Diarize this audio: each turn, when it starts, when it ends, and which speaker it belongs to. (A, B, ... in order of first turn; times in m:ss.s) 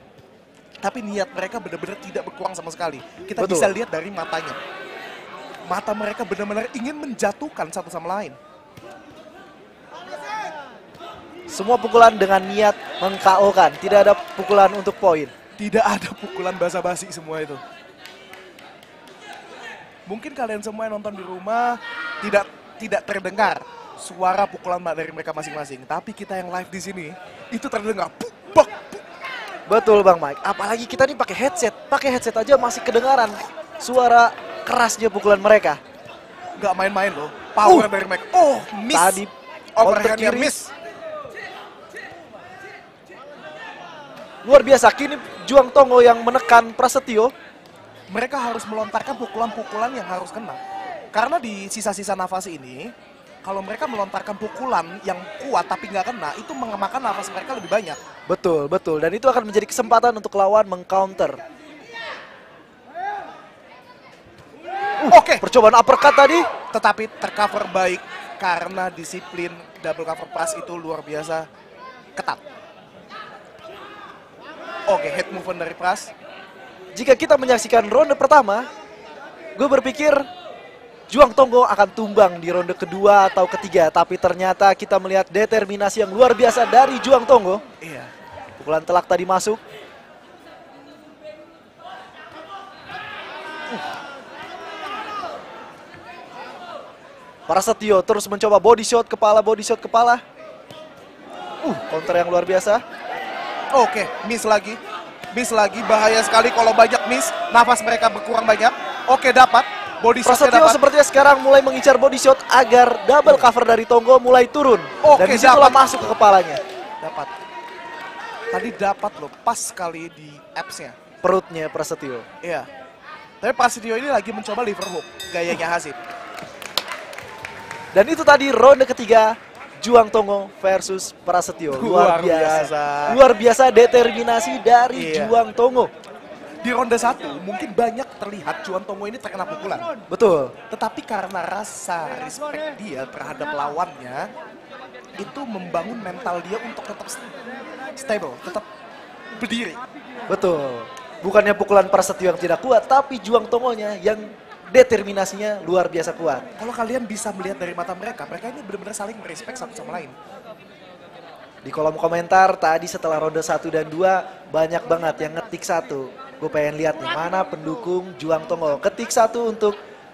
0:00.8-0:04.6 A
0:03.4-0:03.8 B
0:05.7-0:08.4 A
0:11.5-0:15.3 B
0:15.6-0:17.6 A
0:20.1-0:29.0 A
0:29.7-0:35.8 B
0:36.6-0:39.2 A
0:37.6-0:37.9 B
0:38.9-0:40.6 B
0:39.8-0:40.7 A
0:44.4-0:47.3 B
0:48.1-0:50.6 A
0:51.1-0:52.9 A
0:53.4-0:58.0 A
0:58.3-1:01.4 B
1:05.0-1:06.5 B
1:05.1-1:05.4 A
1:06.7-1:11.5 A
1:14.9-1:16.1 A
1:16.9-1:18.7 B
1:19.6-1:20.2 B
1:21.1-1:27.6 B
1:27.8-1:28.1 A
1:28.6-1:29.6 B
1:37.5-1:40.2 B
1:41.6-1:42.8 B
1:43.7-1:44.8 A
1:45.3-1:50.8 A
1:50.2-1:56.6 B
1:53.2-1:53.5 A
1:55.0-1:56.0 A
1:57.0-1:57.3 A
1:58.5-2:00.9 A
2:01.2-2:02.2 B
2:02.4-2:02.7 A
2:03.4-2:06.0 A
2:07.9-2:15.9 B
2:11.7-2:13.2 A
2:14.9-2:15.4 A
2:16.6-2:19.9 A
2:20.1-2:20.6 B
2:20.7-2:24.3 A
2:25.2-2:27.2 A
2:28.0-2:28.6 A
2:29.4-2:29.8 A
2:30.3-2:36.4 B
2:36.6-2:40.1 A
2:41.6-2:49.8 B